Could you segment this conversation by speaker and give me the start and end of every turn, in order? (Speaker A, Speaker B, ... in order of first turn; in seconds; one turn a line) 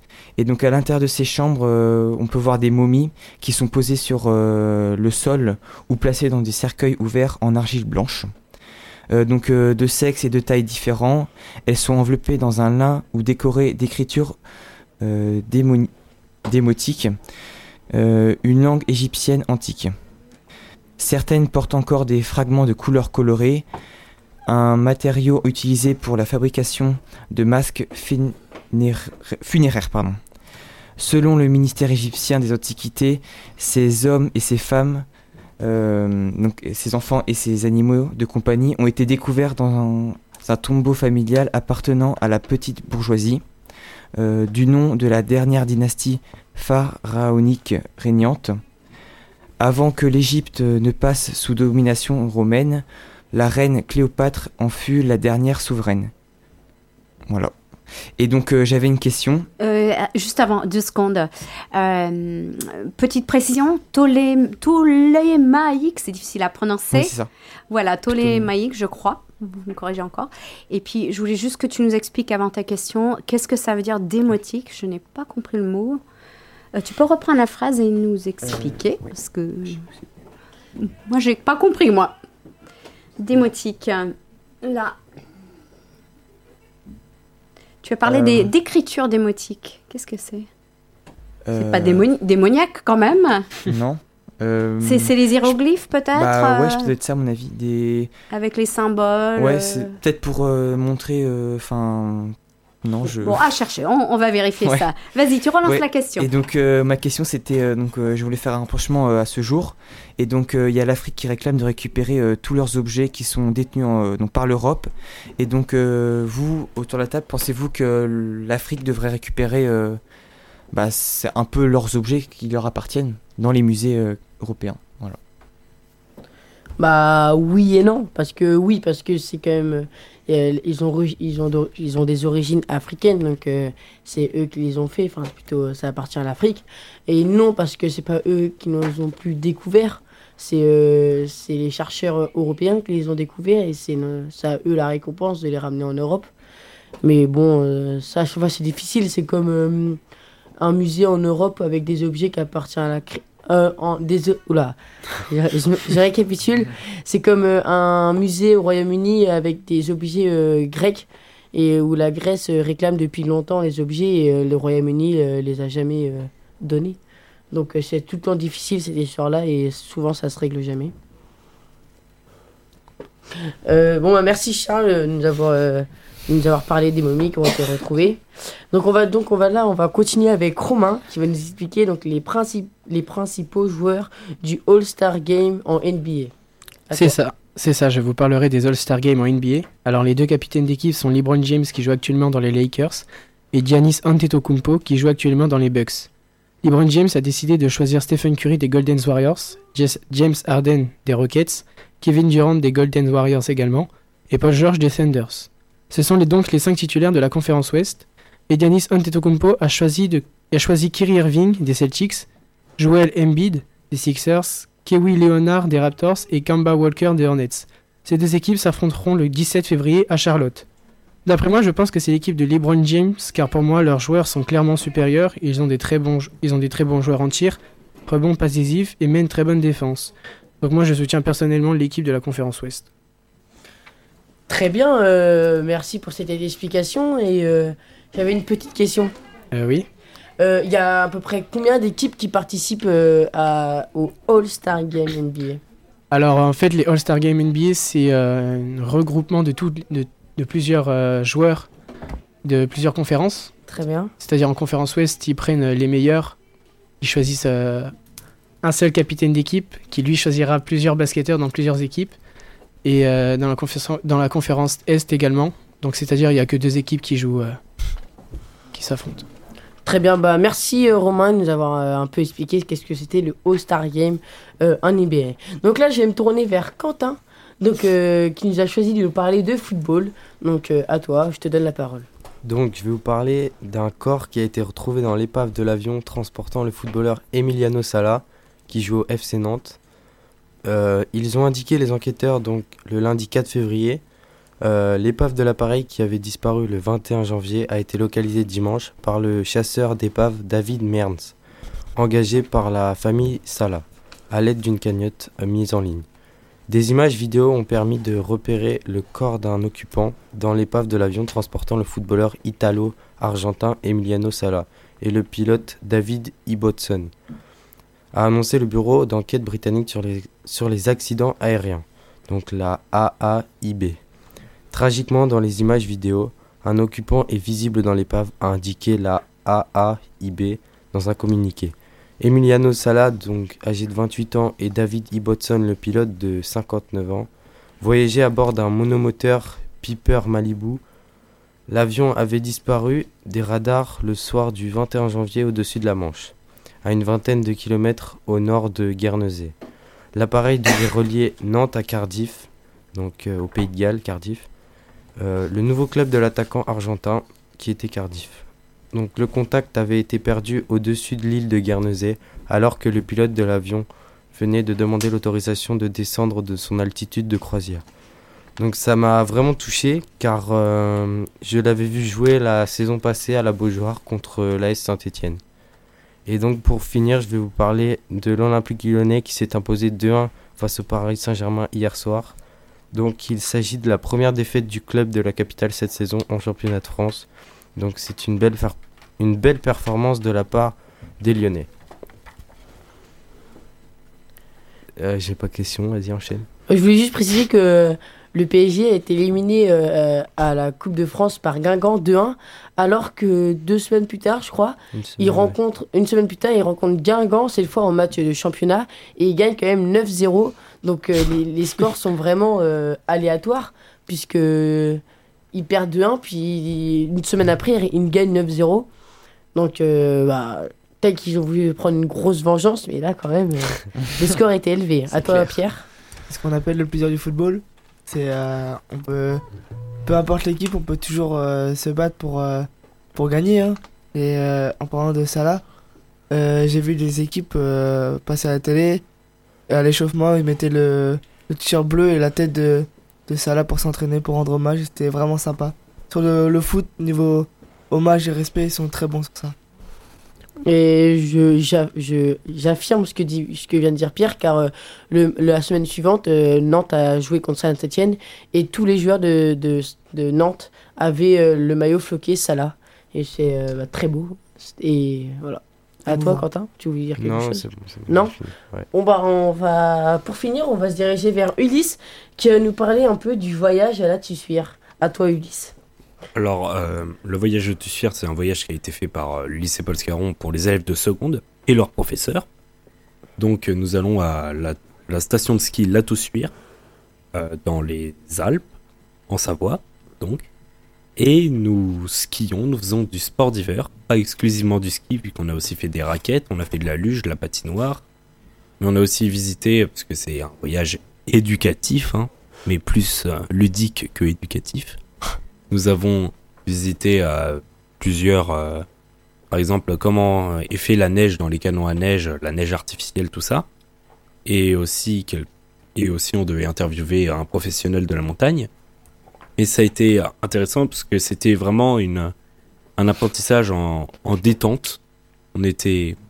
Speaker A: 0.4-8.3
Speaker A: 9.1-14.4
Speaker A: 15.0-15.9
Speaker A: 16.5-17.1
Speaker A: 17.9-19.9
Speaker A: 21.0-23.7
Speaker A: 24.5-30.2
Speaker A: 31.0-35.1
Speaker A: 35.6-43.4
Speaker A: 44.2-48.6
Speaker A: 49.6-56.1
Speaker A: 58.2-59.5
Speaker B: 59.6-67.1
Speaker A: 66.9-67.3
Speaker B: 67.7-76.0
Speaker A: 68.1-68.5
Speaker B: 76.7-79.8
Speaker B: 80.8-82.2
Speaker B: 83.2-85.0
Speaker B: 87.8-90.5
Speaker A: 88.0-88.5
Speaker A: 91.5-92.1
Speaker B: 91.6-93.5
Speaker A: 93.7-95.6
Speaker B: 94.8-96.9
Speaker A: 96.1-98.1
Speaker B: 98.3-99.9
Speaker A: 99.4-103.4
Speaker B: 103.2-106.3
Speaker A: 104.6-104.9
Speaker A: 105.6-120.0
Speaker A: 120.7-125.2
Speaker C: 126.8-146.3
Speaker C: 147.0-150.0
Speaker C: 150.6-167.0
Speaker C: 167.5-170.9
Speaker C: 173.7-178.2
Speaker C: 178.7-186.3
Speaker C: 186.9-187.2
Speaker D: 186.9-196.1
Speaker D: 196.6-212.3
Speaker D: 212.8-220.7
Speaker D: 221.3-232.9
Speaker C: 234.5-239.1
Speaker D: 239.5-239.9
Speaker C: 240.4-245.6
Speaker D: 246.1-251.7
Speaker D: 252.4-253.5
Speaker C: 253.7-254.1
Speaker D: 254.2-256.4
Speaker D: 257.0-257.9
Speaker D: 258.6-262.1
Speaker D: 262.8-267.6
Speaker D: 268.7-269.3
Speaker C: 269.9-282.1
Speaker E: 282.4-289.8
Speaker E: 290.6-294.0
Speaker E: 294.6-301.4
Speaker E: 302.0-306.1
Speaker E: 306.7-317.1
Speaker E: 318.1-324.0
Speaker E: 324.7-337.3
Speaker E: 337.8-340.8
Speaker E: 341.7-349.6
Speaker E: 350.1-354.5
Speaker E: 355.2-367.9
Speaker E: 368.6-375.4
Speaker E: 376.3-382.4
Speaker E: 382.9-391.7
Speaker E: 395.0-396.5
Speaker C: 396.7-415.0
Speaker E: 404.9-405.6
Speaker C: 415.5-418.9
Speaker C: 419.5-425.9
Speaker F: 426.3-429.4
Speaker F: 430.1-435.6
Speaker F: 436.3-439.0
Speaker F: 439.7-449.6
Speaker C: 450.6-468.3
Speaker F: 466.1-466.4
Speaker E: 467.2-468.9
Speaker C: 468.9-475.7
Speaker G: 476.4-482.5
Speaker G: 483.4-486.5
Speaker G: 487.3-488.6
Speaker G: 489.3-490.5
Speaker G: 491.2-498.0
Speaker G: 498.8-505.0
Speaker G: 505.7-508.9
Speaker G: 509.5-513.7
Speaker G: 514.5-518.7
Speaker G: 519.6-522.3
Speaker G: 523.0-525.0
Speaker G: 525.5-526.2